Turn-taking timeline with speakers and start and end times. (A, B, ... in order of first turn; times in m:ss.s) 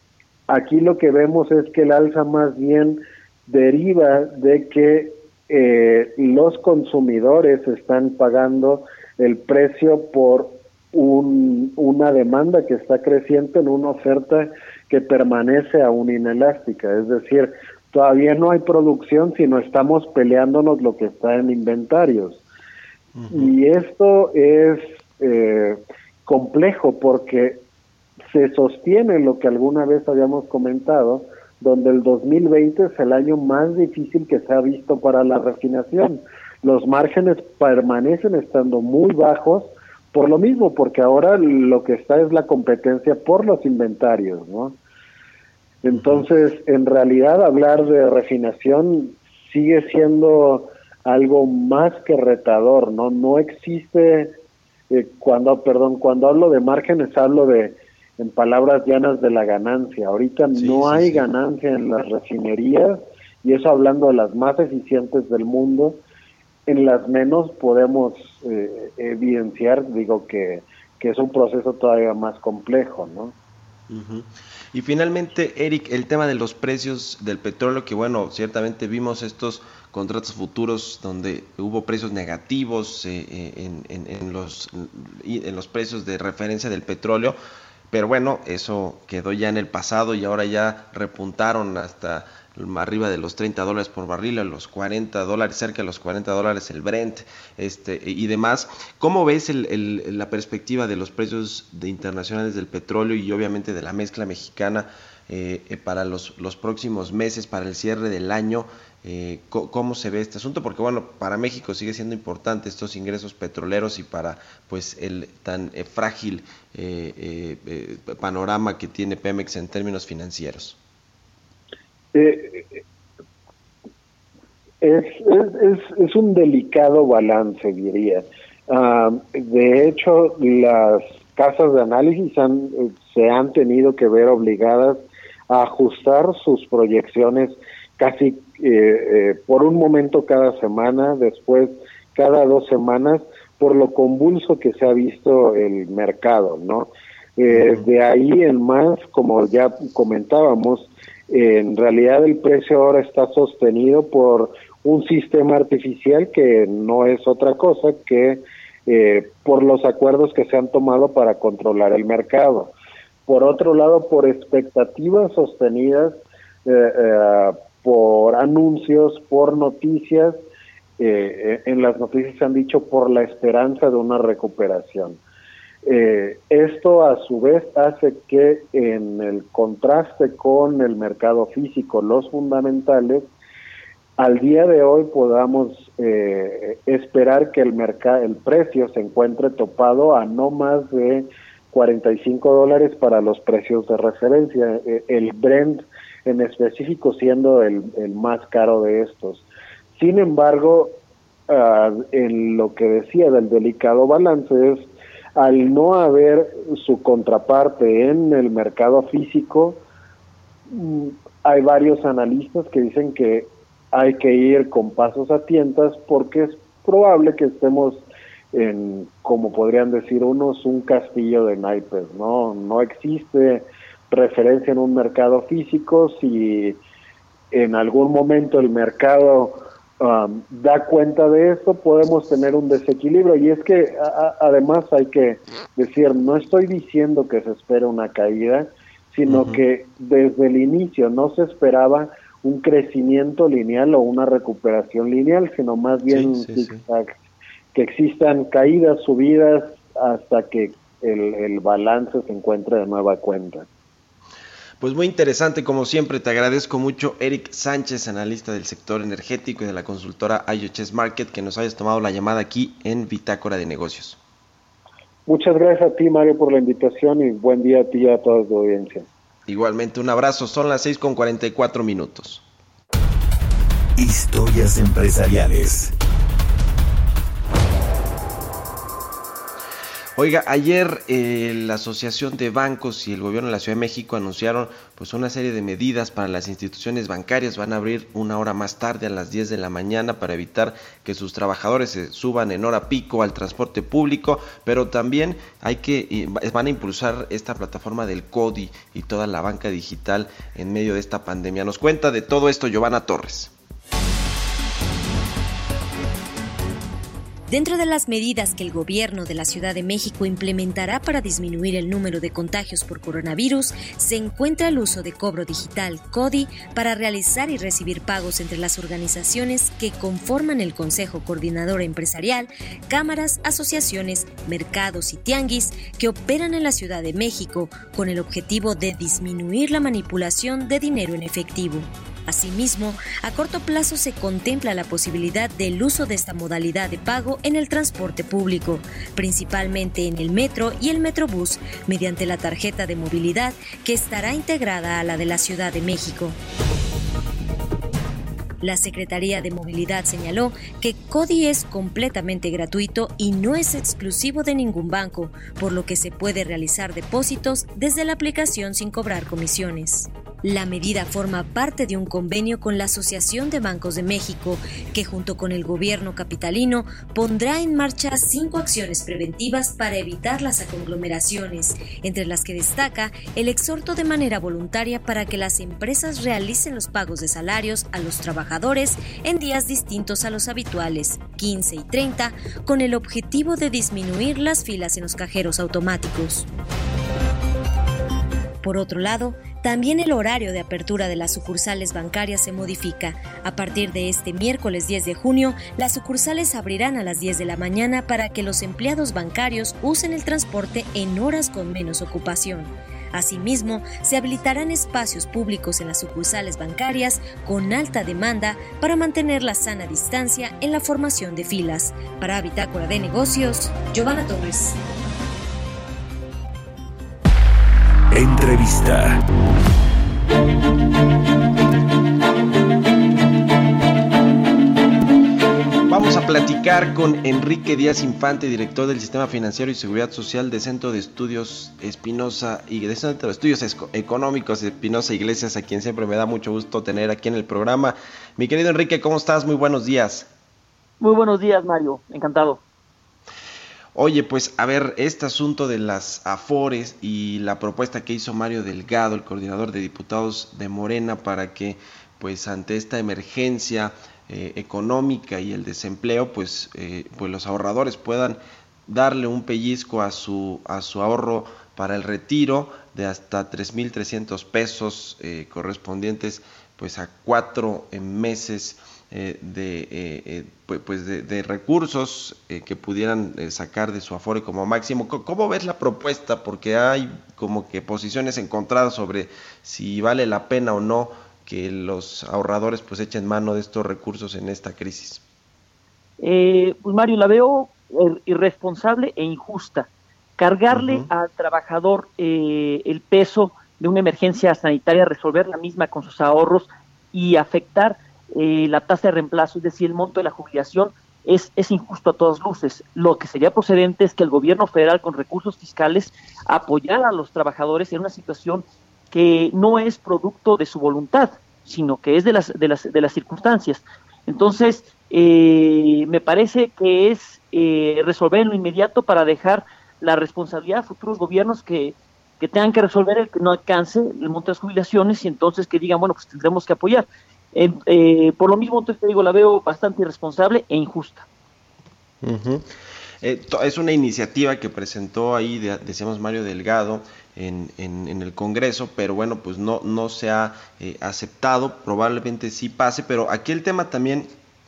0:00.5-0:22.4 A
0:23.2-0:23.5 B
0:23.3-0:27.6 A
0:28.3-0:44.8 A
0:45.8-0:54.3 A
0:54.9-1:06.0 A
1:00.6-1:01.2 B
1:06.7-1:13.3 A
1:13.9-1:27.4 B
1:27.9-2:00.8 B
2:02.1-2:02.8 A
2:04.8-2:42.7 A
2:27.6-2:27.8 B
2:43.3-2:50.4 A
2:51.0-2:55.2 A
2:55.8-3:03.3 A
3:04.2-3:21.0 A
3:21.5-3:29.8 A
3:30.7-3:46.8 A
3:47.5-4:07.1 A
3:59.3-3:59.6 B
4:06.1-4:06.8 B
4:07.7-4:13.7 A
4:14.8-4:24.2 B
4:25.3-4:29.1 A
4:29.5-4:32.4 B
4:34.0-4:35.9 C
4:40.2-5:03.5 B
5:07.5-5:46.4 D
5:48.6-6:26.5 D
6:28.6-6:54.8 D
6:58.1-6:59.2 C
7:05.9-7:20.3 B
7:21.0-7:22.6 E
7:24.0-8:05.2 B
8:06.2-8:51.3 E
8:10.7-8:11.1 B
8:52.2-8:52.7 B
8:53.2-9:04.3 B